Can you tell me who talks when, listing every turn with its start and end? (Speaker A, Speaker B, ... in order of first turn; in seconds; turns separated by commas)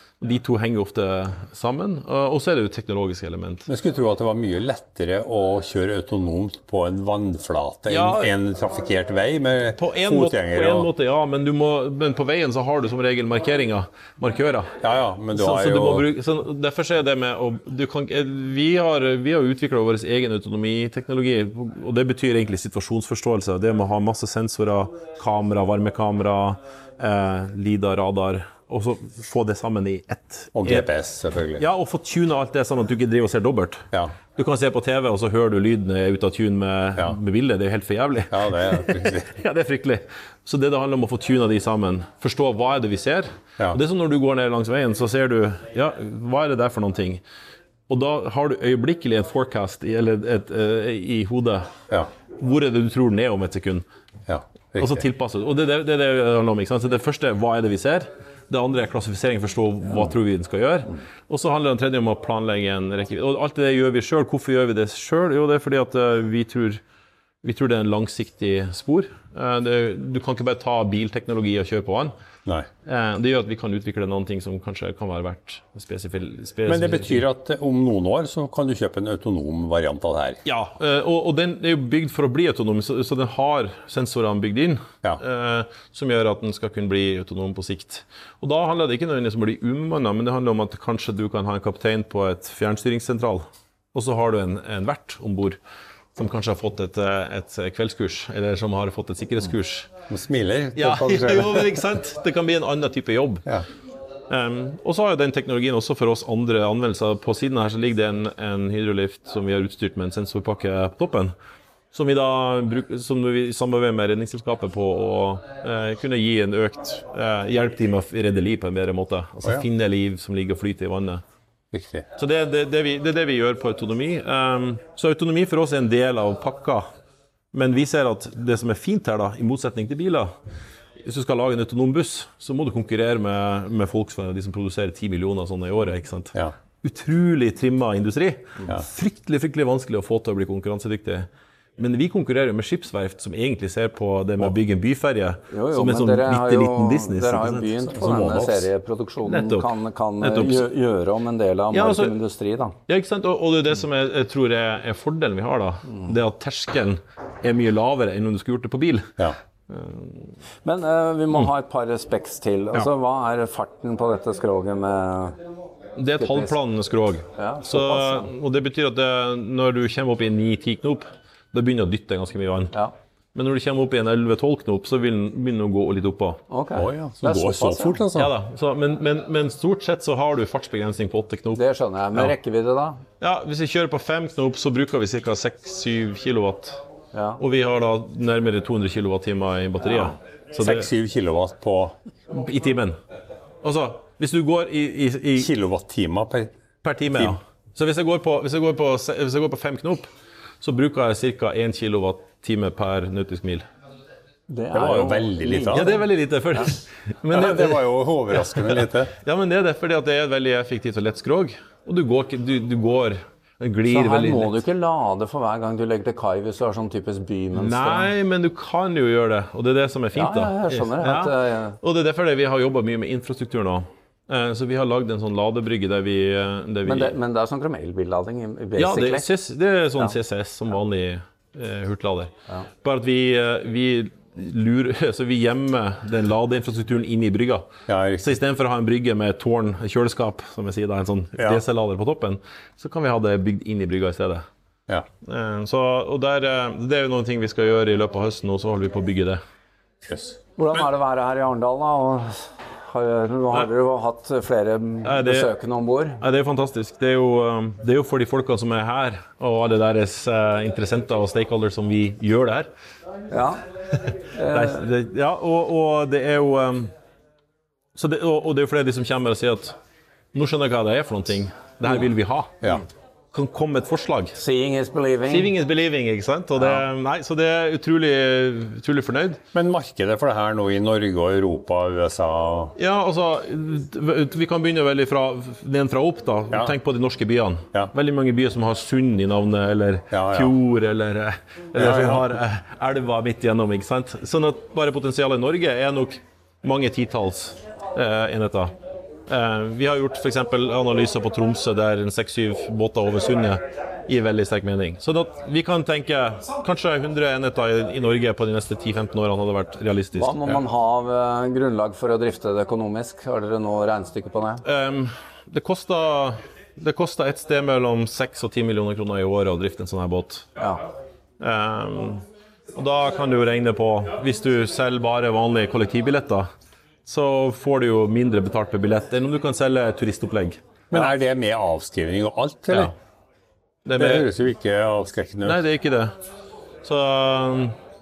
Speaker A: 0.2-3.7, Speaker B: 3.7-10.9, Speaker A: 7.9-8.3, Speaker A: 9.8-14.7, Speaker B: 14.8-16.1, Speaker A: 15.3-30.9, Speaker B: 30.5-31.6, Speaker A: 31.6-33.8, Speaker A: 34.3-47.2, Speaker B: 38.3-39.3, Speaker A: 47.9-51.7, Speaker A: 52.4-53.8, Speaker B: 54.3-55.0, Speaker A: 54.8-66.8, Speaker A: 67.4-72.1, Speaker A: 72.8-77.2, Speaker B: 76.7-80.4, Speaker A: 80.4-93.4, Speaker A: 93.9-95.6, Speaker A: 96.2-99.9, Speaker B: 100.1-101.8, Speaker A: 100.8-103.5, Speaker A: 104.3-111.3, Speaker A: 111.9-121.2, Speaker B: 121.7-122.0, Speaker A: 122.2-126.8, Speaker A: 127.5-130.3, Speaker A: 131.0-148.7, Speaker C: 145.5-152.8, Speaker A: 149.2-149.7, Speaker A: 150.2-150.7, Speaker A: 151.7-152.1, Speaker A: 152.9-159.1, Speaker A: 159.7-160.3, Speaker C: 160.6-165.3, Speaker A: 165.9-172.7, Speaker C: 166.2-166.6, Speaker C: 167.3-168.3, Speaker A: 173.3-176.4, Speaker C: 176.5-178.0, Speaker B: 176.7-178.3, Speaker A: 178.1-181.6, Speaker C: 181.5-183.0, Speaker A: 183.2-186.8, Speaker C: 187.1-187.4, Speaker A: 187.4-190.9, Speaker B: 190.5-191.9, Speaker A: 192.3-193.0, Speaker A: 193.6-195.5, Speaker B: 195.4-196.5, Speaker A: 196.8-200.1, Speaker A: 200.6-203.6, Speaker C: 204.5-206.0, Speaker B: 204.7-206.0, Speaker A: 205.7-214.6, Speaker B: 207.3-209.1, Speaker C: 213.9-218.1, Speaker A: 217.5-227.1, Speaker C: 220.1-221.8, Speaker C: 226.8-229.3, Speaker A: 228.8-232.3, Speaker A: 232.8-237.7, Speaker B: 237.9-238.3, Speaker A: 238.2-244.4, Speaker B: 241.4-241.6, Speaker A: 245.2-249.4, Speaker B: 250.1-250.4, Speaker C: 250.6-256.2, Speaker A: 255.0-255.5, Speaker A: 256.2-262.7, Speaker C: 263.3-263.6, Speaker C: 264.3-264.8, Speaker A: 264.5-266.9, Speaker A: 267.9-269.8, Speaker A: 270.3-272.5, Speaker A: 273.3-274.4, Speaker C: 274.4-275.5, Speaker A: 275.3-279.4, Speaker C: 276.6-276.8, Speaker B: 279.5-282.7, Speaker A: 282.8-298.7, Speaker B: 290.1-290.5, Speaker B: 291.7-292.4, Speaker A: 299.3-310.6, Speaker C: 310.1-314.6, Speaker A: 314.6-320.4, Speaker C: 320.6-320.8, Speaker A: 321.4-322.2, Speaker A: 322.7-326.5, Speaker A: 327.1-331.0, Speaker B: 330.9-332.9, Speaker A: 333.9-334.3, Speaker B: 334.0-335.6, Speaker A: 335.4-336.1, Speaker A: 336.8-337.8